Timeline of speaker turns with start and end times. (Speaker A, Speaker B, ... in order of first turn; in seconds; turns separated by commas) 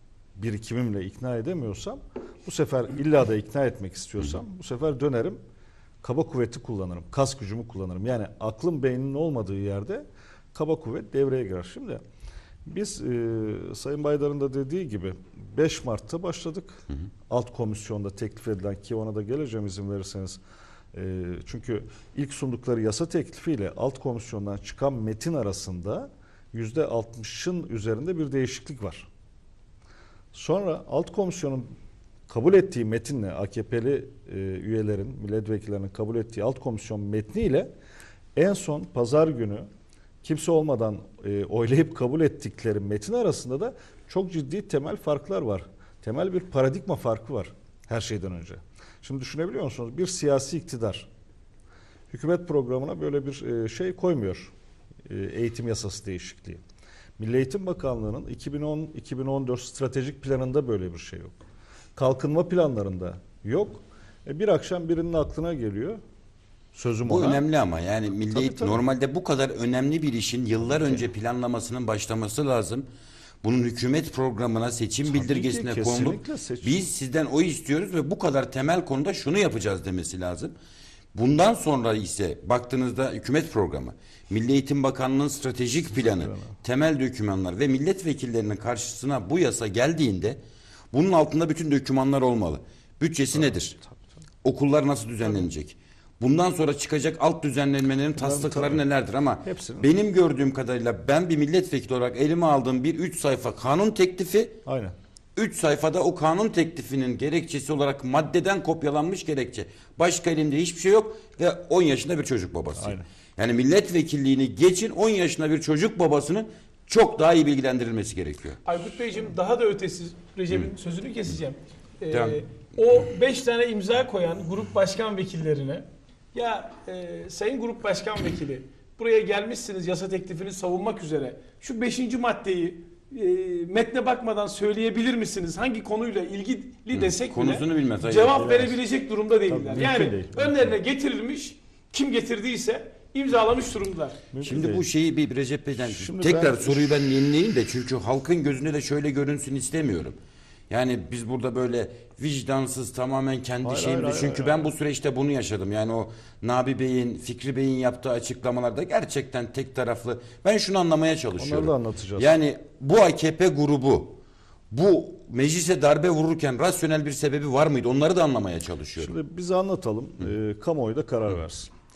Speaker A: 0.4-5.4, Speaker A: 6.0-12.0, Speaker A: 12.7-20.4, Speaker A: 20.9-29.1, Speaker A: 30.3-31.7, Speaker A: 32.3-37.7, Speaker A: 38.4-39.7, Speaker A: 40.2-51.1, Speaker A: 52.1-54.5, Speaker A: 55.1-56.6, Speaker A: 57.2-61.4, Speaker A: 62.0-66.0, Speaker A: 66.7-67.4, Speaker B: 67.1-72.8, Speaker A: 68.3-68.8, Speaker B: 73.4-80.5, Speaker A: 75.0-76.8, Speaker B: 81.1-90.4, Speaker A: 86.0-86.5, Speaker B: 90.9-93.8, Speaker B: 94.4-104.6, Speaker A: 98.2-98.8, Speaker A: 99.4-99.9, Speaker A: 104.7-105.0, Speaker B: 105.4-118.6, Speaker A: 112.8-113.0, Speaker C: 118.7-144.2, Speaker B: 122.1-122.4, Speaker B: 136.9-138.6, Speaker A: 138.4-138.8, Speaker A: 139.5-140.7, Speaker A: 144.3-144.9, Speaker B: 144.4-150.2, Speaker A: 145.8-146.8, Speaker B: 150.7-164.2, Speaker A: 153.6-154.7, Speaker A: 161.4-162.3, Speaker B: 164.7-169.1, Speaker A: 169.0-171.7